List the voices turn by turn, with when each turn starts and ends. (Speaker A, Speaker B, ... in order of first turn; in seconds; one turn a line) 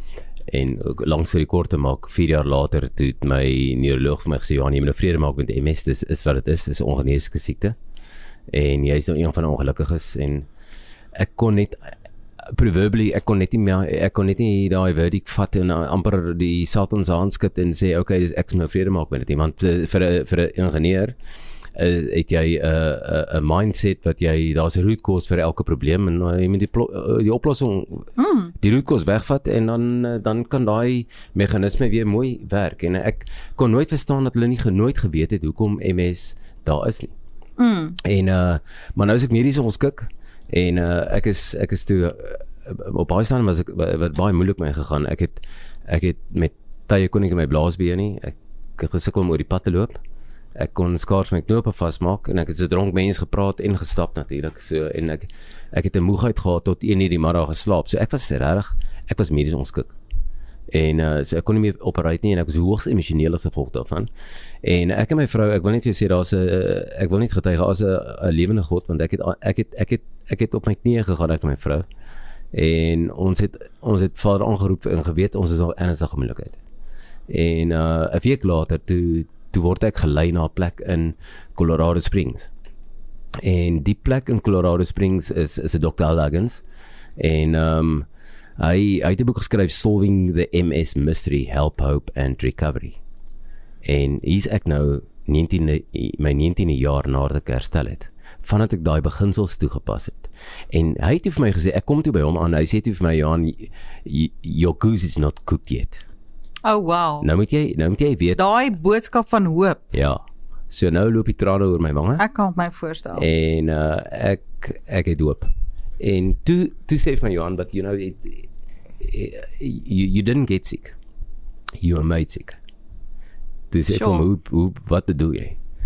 Speaker A: 0.5-7.8
Speaker A: 8.5-10.5
Speaker A: 11.1-11.9
Speaker A: 12.5-21.1
Speaker A: 21.8-37.1
Speaker B: 28.2-28.5
Speaker B: 37.6-38.0
Speaker A: 38.0-50.0
Speaker A: 50.5-59.9
Speaker A: 60.7-64.1
Speaker A: 64.6-71.8
Speaker A: 72.5-76.6
Speaker A: 77.3-82.5
Speaker A: 83.4-86.6
Speaker A: 87.2-88.1
Speaker A: 88.6-93.0
Speaker A: 93.8-106.0
Speaker B: 106.6-107.3
Speaker A: 107.2-108.4
Speaker B: 108.3-109.8
Speaker A: 109.9-112.2
Speaker B: 112.2-113.2
Speaker A: 113.2-121.0
Speaker A: 121.8-122.6
Speaker A: 123.7-125.6
Speaker B: 123.9-124.3